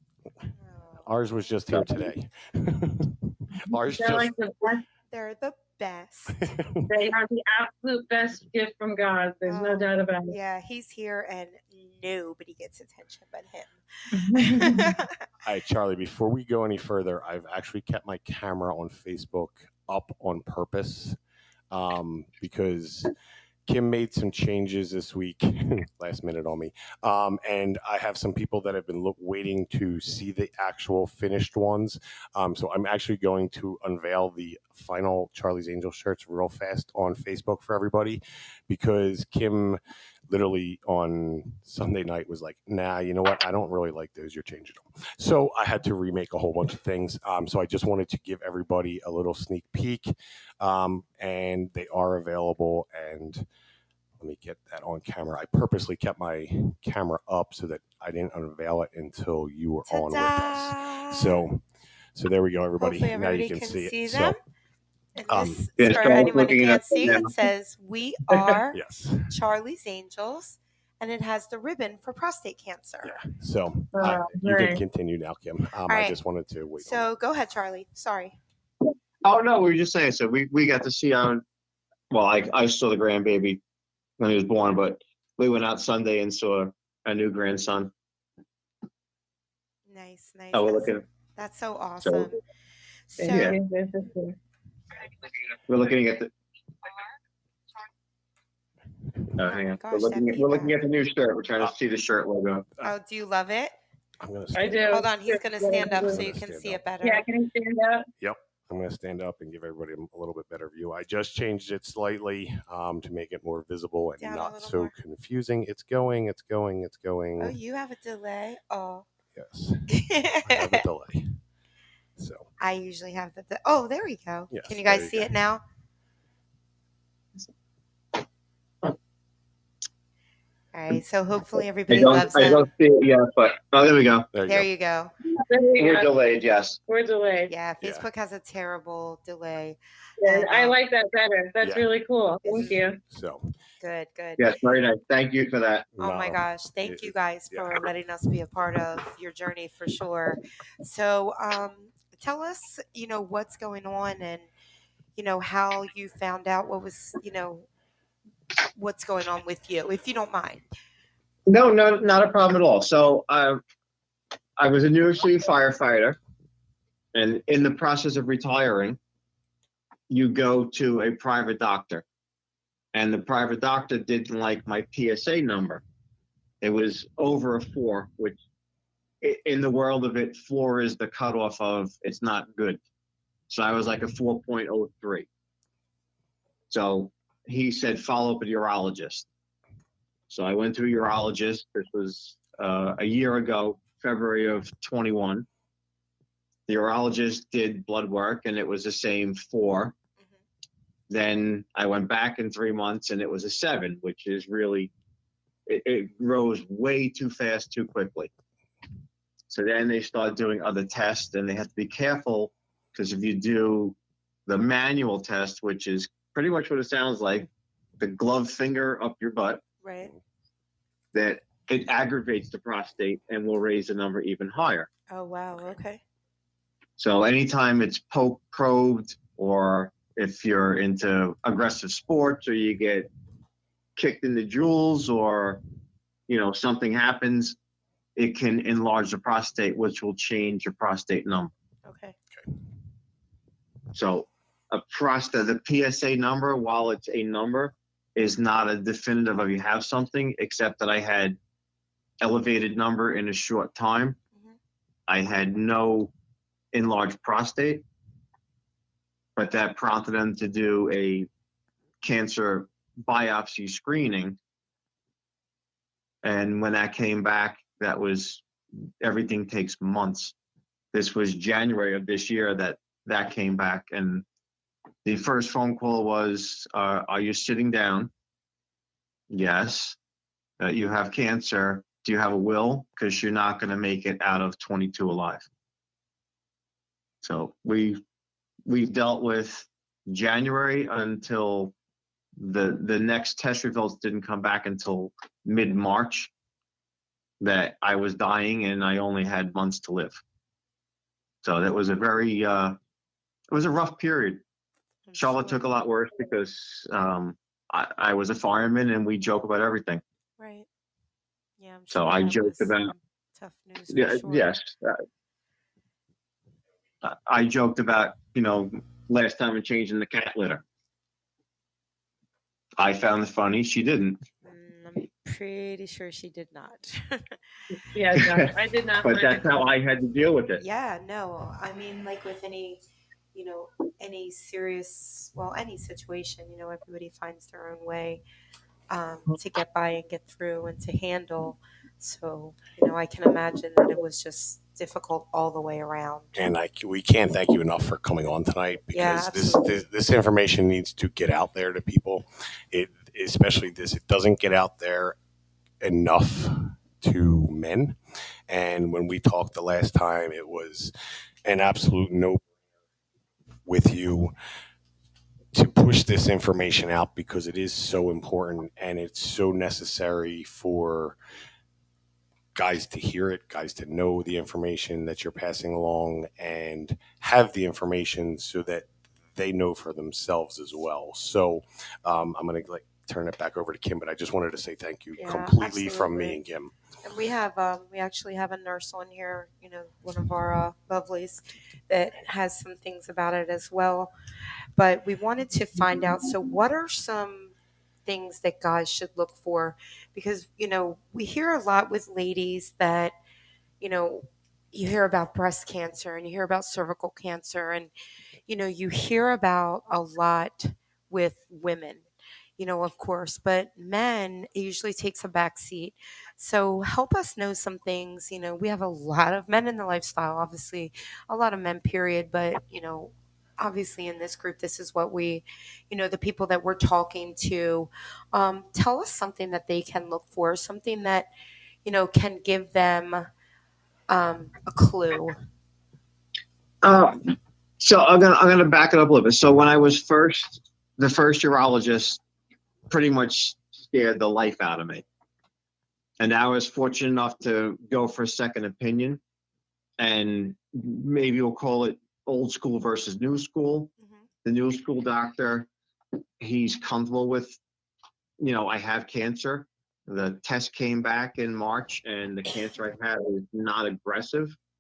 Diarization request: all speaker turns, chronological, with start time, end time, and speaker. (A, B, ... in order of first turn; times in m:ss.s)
0:00.7-0:01.0 A
0:01.0-0:04.3 B
0:03.7-0:04.8 C
0:05.1-0:06.4 A
0:06.4-0:07.0 B
0:06.9-0:10.3 C
0:09.5-0:15.1 A
0:14.1-0:15.0 C
0:15.4-0:21.2 B
0:21.7-0:23.1 B
0:23.7-0:53.5 B
0:54.2-1:01.6 B
0:59.9-1:01.4 A
1:02.2-1:04.4 B
1:02.8-1:04.4 A
1:05.2-1:08.8 A
1:05.3-1:05.8 B
1:05.8-1:07.3 D
1:08.3-1:08.6 D
1:08.7-1:09.4 B
1:09.3-1:13.2 A
1:13.0-1:17.1 B
1:13.9-1:14.8 C
1:15.9-1:16.2 A
1:16.8-1:18.4 A
1:19.2-1:21.4 D
1:22.1-1:23.6 D
1:24.2-1:27.9 D
1:29.9-1:32.4 A
1:30.5-1:31.0 D
1:32.0-1:32.3 D
1:33.1-1:33.6 A
1:33.2-1:34.4 C
1:33.3-1:33.6 D
1:35.7-1:36.3 D
1:39.4-1:42.7 D
1:39.5-1:40.8 A
1:42.8-1:43.7 A
1:44.2-1:45.1 B
1:44.6-1:46.2 C
1:44.9-1:47.2 A
1:45.8-1:46.8 B
1:47.0-1:48.1 C
1:48.2-1:57.6 B
1:54.2-1:54.9 A
1:57.4-1:59.1 A
1:59.4-2:01.4 B
1:59.9-2:00.8 A
2:02.2-2:02.5 B
2:02.6-2:05.6 A
2:04.5-2:05.3 B
2:10.7-2:12.7 A
2:11.9-2:14.3 D
2:14.3-2:14.7 B
2:14.5-2:15.1 A
2:15.3-2:16.1 C
2:15.8-2:16.8 D
2:16.9-2:17.5 C
2:17.5-2:20.8 A
2:17.8-2:18.1 B
2:20.2-2:23.0 C
2:21.6-2:21.9 B
2:22.4-2:22.7 A
2:22.6-2:23.5 B
2:23.8-2:24.4 A
2:24.4-2:25.9 D
2:26.0-2:27.9 B
2:26.0-2:34.5 A
2:35.2-2:37.7 A
2:38.8-2:40.6 A
2:41.5-2:43.6 D
2:44.6-2:46.2 D
2:47.1-2:49.0 D
2:50.1-2:52.0 D
2:52.9-2:55.8 D
2:56.6-2:58.4 D
2:59.2-3:02.8 D
3:03.5-3:05.3 D
3:06.7-3:09.3 D
3:10.3-3:15.5 D
3:16.7-3:20.0 D
3:21.1-3:24.9 D
3:25.7-3:28.3 D
3:29.5-3:34.0 D
3:34.5-3:37.5 D
3:38.0-3:39.6 D
3:39.8-3:40.1 A
3:41.1-3:44.9 D
3:45.1-3:46.0 A
3:47.0-3:53.1 D
3:54.0-3:55.6 D
3:56.3-3:57.6 D
3:58.2-4:01.5 D
4:01.9-4:02.2 A
4:03.9-4:11.4 D
4:12.2-4:14.2 D
4:15.1-4:16.1 D
4:16.7-4:17.8 D
4:19.4-4:21.3 D
4:22.0-4:24.4 D
4:26.2-4:28.5 D
4:29.0-4:30.3 D
4:30.9-4:34.2 D
4:35.0-4:38.1 D
4:39.3-4:40.0 D
4:40.6-4:45.5 D
4:47.2-4:48.0 D
4:48.7-4:51.7 D
4:52.4-4:56.3 D
4:57.4-5:00.2 D
5:01.4-5:02.8 D
5:03.5-5:04.4 D
5:05.1-5:05.6 A
5:05.2-5:10.0 D
5:10.4-5:10.7 A
5:11.6-5:14.5 A
5:11.9-5:12.9 D
5:13.9-5:15.0 D
5:17.0-5:20.6 D
5:22.8-5:24.2 D
5:24.4-5:27.4 A
5:27.9-5:29.6 C
5:28.2-5:30.6 D
5:30.6-5:32.8 A
5:33.3-5:38.2 A
5:38.9-5:46.5 A
5:46.4-5:55.2 B
5:48.9-5:49.8 A
5:55.8-5:58.0 B
5:58.5-6:00.9 B
6:01.5-6:02.5 B
6:03.7-6:04.3 B
6:05.5-6:11.2 B
6:12.6-6:26.7 B
6:25.2-6:26.4 A
6:27.0-6:34.1 A
6:34.8-6:37.5 A
6:38.1-6:43.2 A
6:43.8-6:47.9 A
6:48.5-6:52.0 A
6:52.6-7:11.3 A
7:11.8-7:13.3 A
7:14.1-7:15.4 A
7:16.8-7:22.2 D
7:22.9-7:25.0 D
7:26.2-7:29.2 D
7:30.0-7:33.9 D
7:34.4-7:35.7 D
7:36.4-7:37.6 D
7:38.4-7:44.6 D